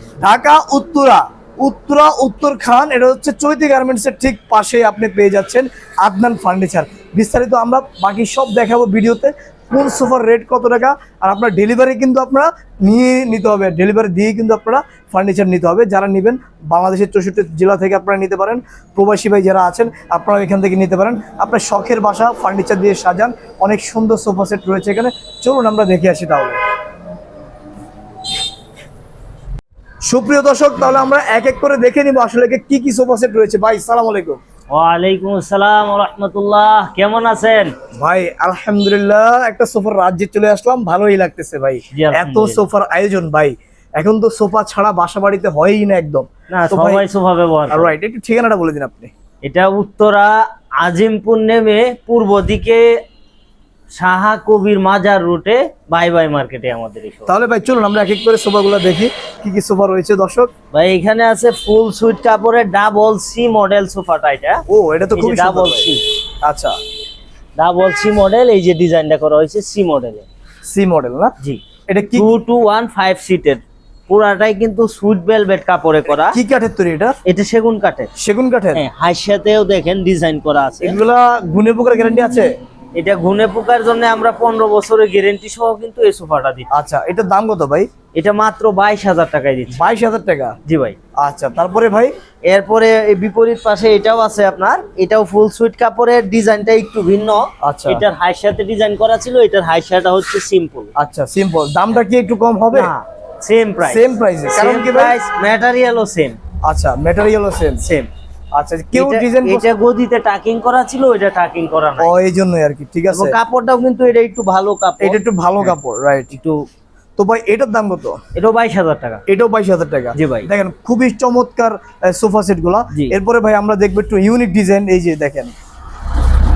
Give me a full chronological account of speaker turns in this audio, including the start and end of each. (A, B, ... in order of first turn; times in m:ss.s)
0:00.2-0:26.6 A
0:30.1-0:34.4 A
0:34.7-0:37.8 B
0:37.9-0:47.0 A
0:41.9-0:42.7 B
0:46.5-0:47.9 B
0:47.7-0:49.1 A
0:49.4-0:52.8 B
0:53.9-0:57.3 B
0:57.3-1:00.5 A
1:00.7-1:04.6 B
1:04.7-1:05.9 A
1:05.2-1:06.0 B
1:06.4-1:06.8 A
1:07.6-1:10.3 B
1:10.7-1:11.3 A
1:11.9-1:12.3 A
1:12.1-1:16.4 B
1:16.1-1:17.2 A
1:17.2-1:18.1 B
1:18.2-1:18.8 A
1:18.8-1:21.0 B
1:20.8-1:22.5 A
1:23.0-1:26.7 B
1:26.7-1:27.9 A
1:28.1-1:29.8 B
1:29.7-1:30.6 A
1:30.6-1:31.0 B
1:31.2-1:32.1 A
1:32.5-1:40.9 B
1:37.6-1:38.0 A
1:41.0-1:42.9 A
1:42.7-1:46.4 B
1:43.8-1:45.2 A
1:46.7-1:47.8 A
1:47.8-1:48.1 B
1:48.6-1:49.7 A
1:48.9-1:52.1 B
1:52.0-1:53.4 A
1:53.1-1:55.8 B
1:55.0-1:56.3 A
1:56.3-1:56.6 B
1:57.2-1:58.2 A
1:58.3-1:59.2 B
1:59.3-2:05.5 A
2:00.1-2:00.5 B